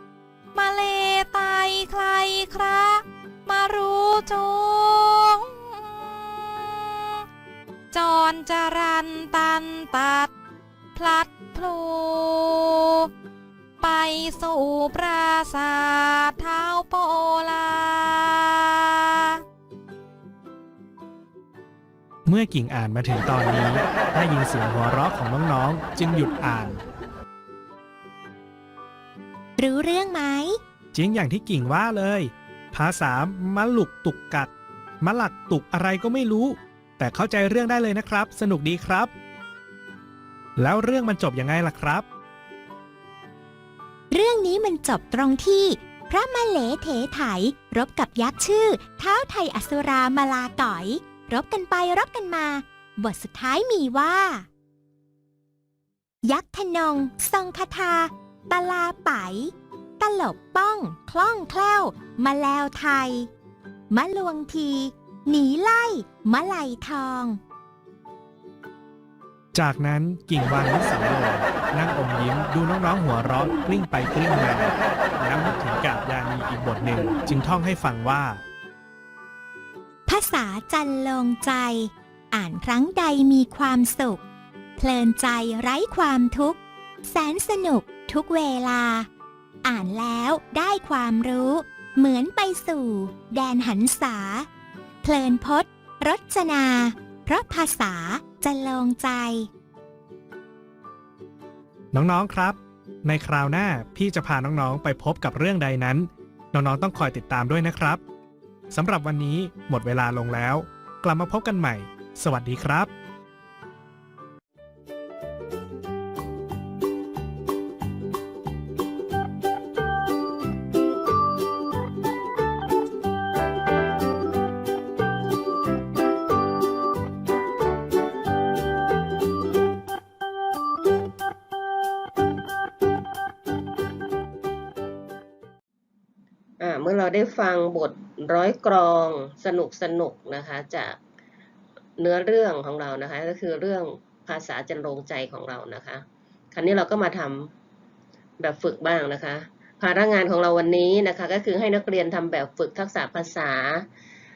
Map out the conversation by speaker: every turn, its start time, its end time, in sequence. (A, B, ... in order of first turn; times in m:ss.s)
0:00.5-0:07.1 A
0:07.9-0:10.3 A
0:11.0-0:13.1 A
0:13.8-0:19.4 A
0:22.2-0:26.8 B
0:29.6-0:30.6 C
0:30.9-0:39.1 B
0:40.6-0:42.1 B
0:44.1-0:54.5 C
0:56.2-1:03.3 C
1:03.9-1:07.4 C
1:09.5-1:18.4 B
1:20.1-1:24.2 C
1:24.8-1:29.1 C
1:29.6-1:34.5 C
1:35.0-1:39.5 C
1:41.9-1:48.0 B
1:48.7-1:52.9 B
2:16.6-2:21.0 D
2:22.0-2:27.5 D
2:28.4-2:33.8 D